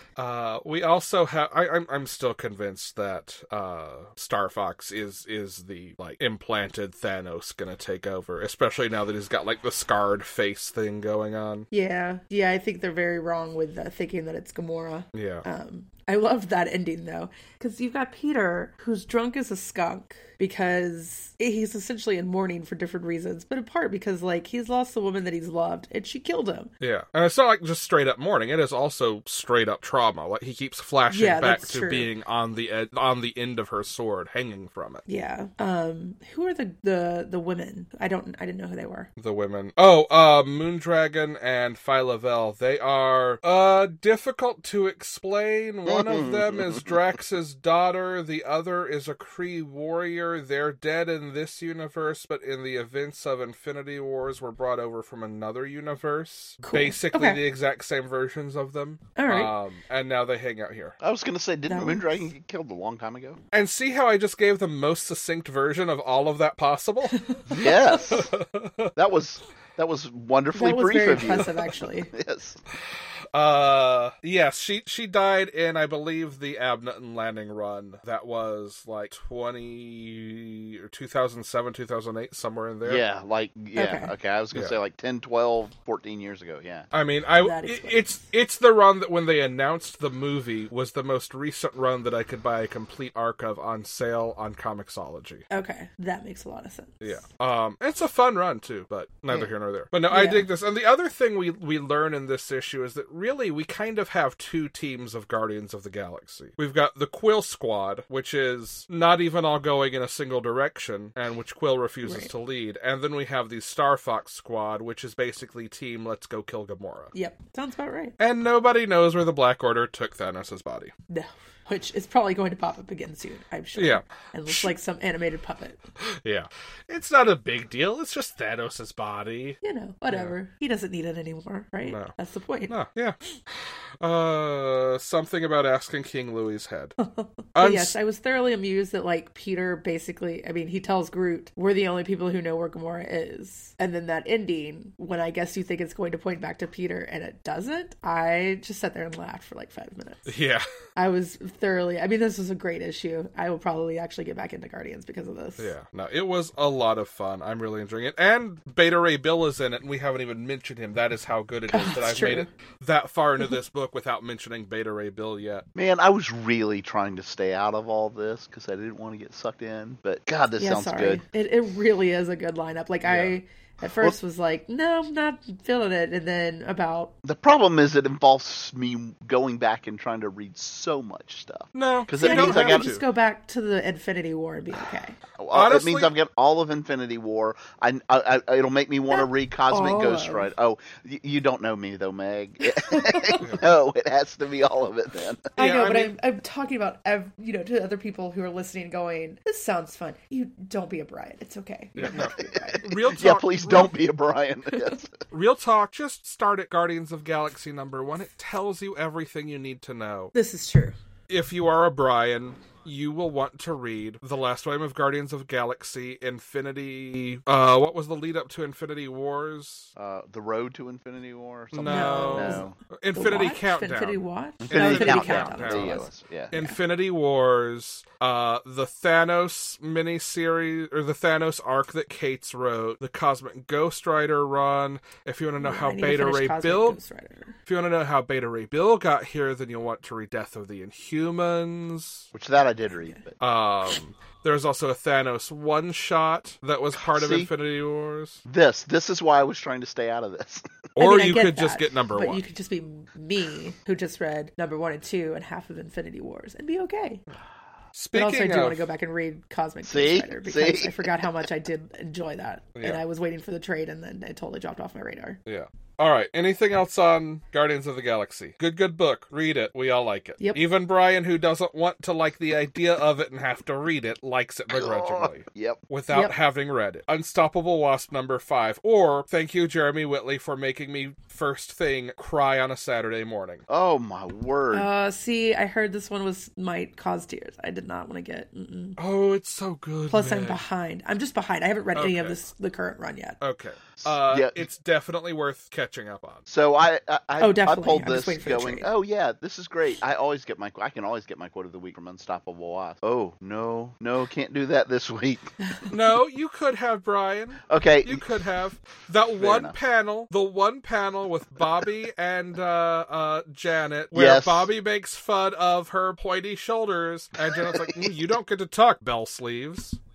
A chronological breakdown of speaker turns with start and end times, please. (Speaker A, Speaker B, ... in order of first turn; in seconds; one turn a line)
Speaker A: 0.2-11.7
Speaker B: 11.7-26.7
Speaker A: 15.1-15.5
Speaker A: 26.8-35.0
Speaker B: 31.1-32.1
Speaker B: 35.1-39.1
Speaker A: 39.2-61.0
Speaker C: 45.9-47.0
Speaker B: 56.6-57.4
Speaker B: 59.2-59.5
Speaker C: 61.0-63.4
Speaker B: 61.7-62.3
Speaker A: 63.5-67.2
Speaker B: 67.1-68.2
Speaker C: 67.5-68.3
Speaker A: 68.0-68.9
Speaker C: 69.0-72.6
Speaker B: 70.5-72.1
Speaker A: 72.7-83.0
Speaker C: 82.8-86.9
Speaker B: 83.8-84.1
Speaker A: 86.9-95.4
Speaker B: 87.4-88.3
Speaker B: 95.5-97.2
Speaker A: 97.0-117.1
Speaker B: 100.1-100.5
Speaker B: 112.0-112.3
Speaker B: 117.1-118.2
Speaker A: 118.2-120.9
Speaker B: 121.1-125.8
Speaker A: 123.8-124.7
Speaker A: 126.0-130.3
Speaker B: 129.6-132.7
Speaker A: 131.8-132.1
Speaker A: 132.7-133.2
Speaker A: 134.0-137.0
Speaker B: 137.0-150.3
Speaker A: 137.6-137.9
Speaker A: 150.3-150.7
Speaker B: 151.0-155.7
Speaker A: 155.6-165.7
Speaker B: 161.7-162.5
Speaker C: 165.8-171.2
Speaker B: 170.6-177.1
Speaker A: 173.0-173.4
Speaker C: 173.8-174.2
Speaker C: 177.2-182.9
Speaker A: 181.7-183.0
Speaker B: 182.2-185.2
Speaker C: 185.4-195.5
Speaker A: 185.5-186.1
Speaker B: 189.1-190.5
Speaker B: 192.7-193.4
Speaker A: 195.6-196.1
Speaker B: 195.6-202.9
Speaker A: 202.0-203.9
Speaker C: 202.1-205.2
Speaker B: 204.7-205.0
Speaker A: 205.3-210.3
Speaker B: 210.3-211.0
Speaker A: 211.3-219.9
Speaker C: 220.0-222.8
Speaker A: 221.7-237.0
Speaker B: 221.8-226.8
Speaker C: 224.6-226.5
Speaker B: 235.6-237.6
Speaker A: 237.7-242.3
Speaker C: 242.3-243.4
Speaker A: 243.4-248.4
Speaker C: 247.0-247.5
Speaker C: 248.5-250.7
Speaker A: 251.0-252.4
Speaker B: 251.0-257.2
Speaker A: 257.9-258.9
Speaker B: 258.1-265.4
Speaker C: 259.8-261.3
Speaker A: 265.5-283.6
Speaker C: 274.7-275.8
Speaker C: 283.7-284.9
Speaker B: 284.7-289.0
Speaker A: 289.0-290.6
Speaker B: 290.1-293.4
Speaker A: 291.9-292.4
Speaker A: 293.4-296.5
Speaker C: 294.0-294.6
Speaker C: 296.5-305.5
Speaker B: 297.4-298.9
Speaker A: 305.9-320.0
Speaker C: 307.7-308.3
Speaker C: 309.4-309.8
Speaker C: 314.1-314.7
Speaker C: 317.4-318.1